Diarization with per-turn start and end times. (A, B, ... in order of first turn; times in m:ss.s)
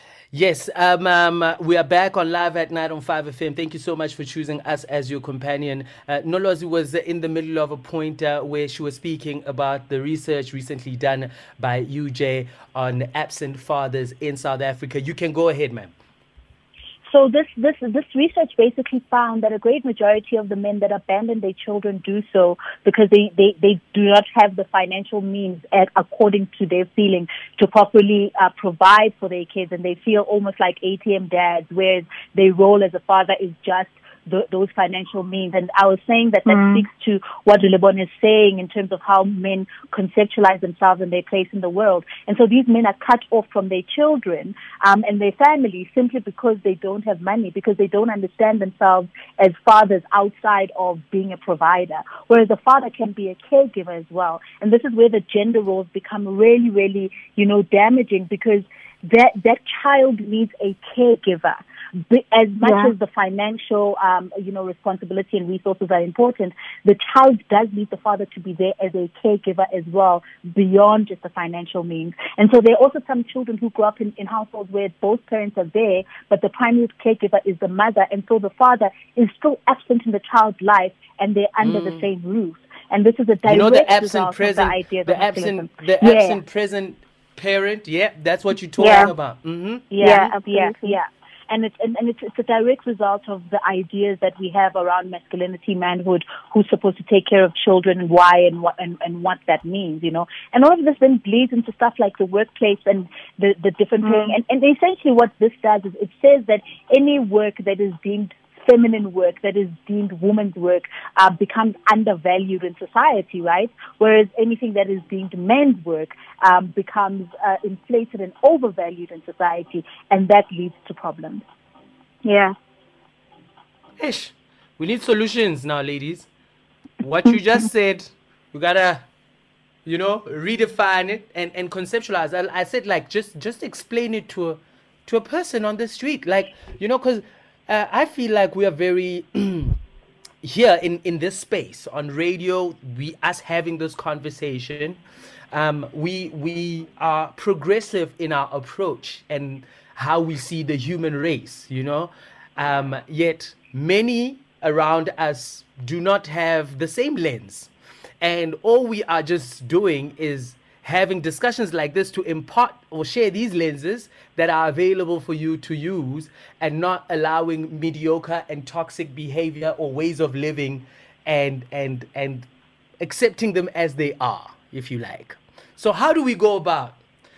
0:00.3-0:15.9 A
0:17.1-1:26.4 B
1:02.6-1:02.9 C
1:21.6-1:22.0 A
1:23.4-1:30.3 A
1:28.8-1:29.1 C
1:29.9-2:01.4 B
1:30.0-1:31.0 C
2:02.2-2:02.5 C
2:04.0-2:06.3 A
2:07.0-2:09.0 A
2:09.8-2:19.8 A
2:20.4-2:25.0 A
2:25.5-2:52.5 A
2:53.0-2:57.0 A